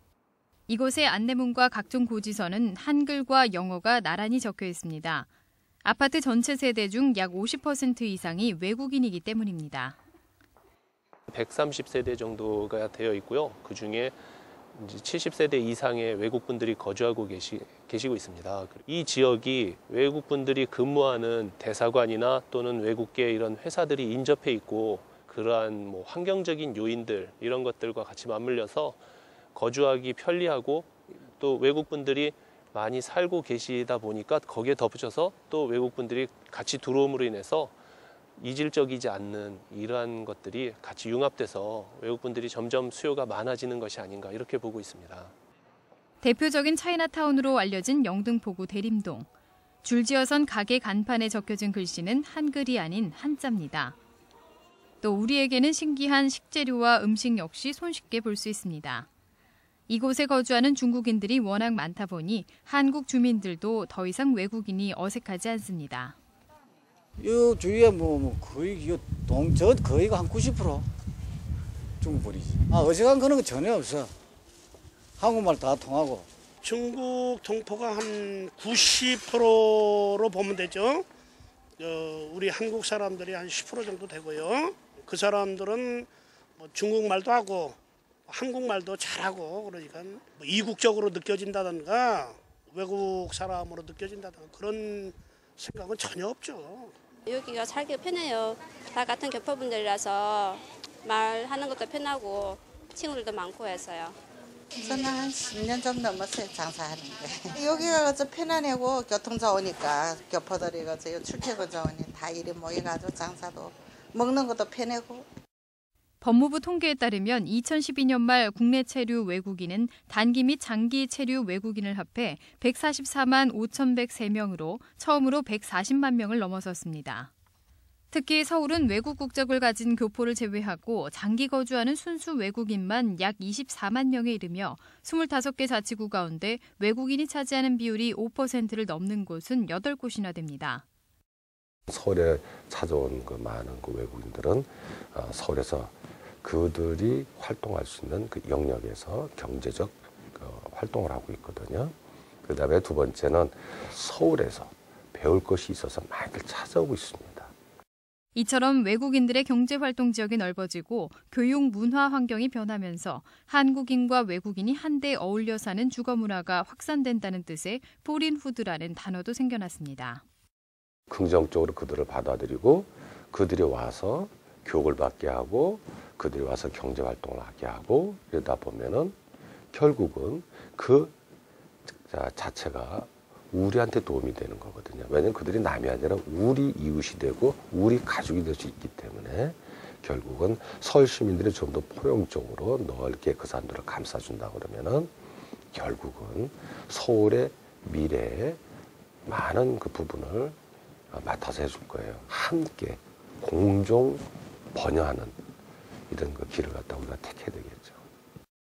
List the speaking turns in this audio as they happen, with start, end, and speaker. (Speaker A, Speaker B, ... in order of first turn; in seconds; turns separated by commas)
Speaker A: 0.7-5.3, Speaker A: 5.8-10.0, Speaker B: 11.3-14.2, Speaker B: 14.7-29.0, Speaker B: 29.5-37.7, Speaker B: 38.4-45.3, Speaker A: 46.2-49.3, Speaker A: 49.8-54.0, Speaker A: 55.0-59.1, Speaker A: 59.9-66.2, Speaker C: 67.2-70.9, Speaker C: 72.0-74.1, Speaker C: 75.2-76.3, Speaker D: 76.6-81.0, Speaker D: 81.8-86.1, Speaker D: 86.6-87.8, Speaker D: 88.3-96.9, Speaker E: 97.3-104.2, Speaker F: 104.8-115.3, Speaker A: 116.2-127.3, Speaker A: 128.1-140.8, Speaker G: 141.9-157.5, Speaker A: 158.3-170.2, Speaker G: 171.1-179.2, Speaker G: 179.7-181.1, Speaker G: 181.9-195.1, Speaker G: 195.7-198.6, Speaker G: 199.2-200.6, Speaker G: 201.1-205.4, Speaker G: 206.1-208.0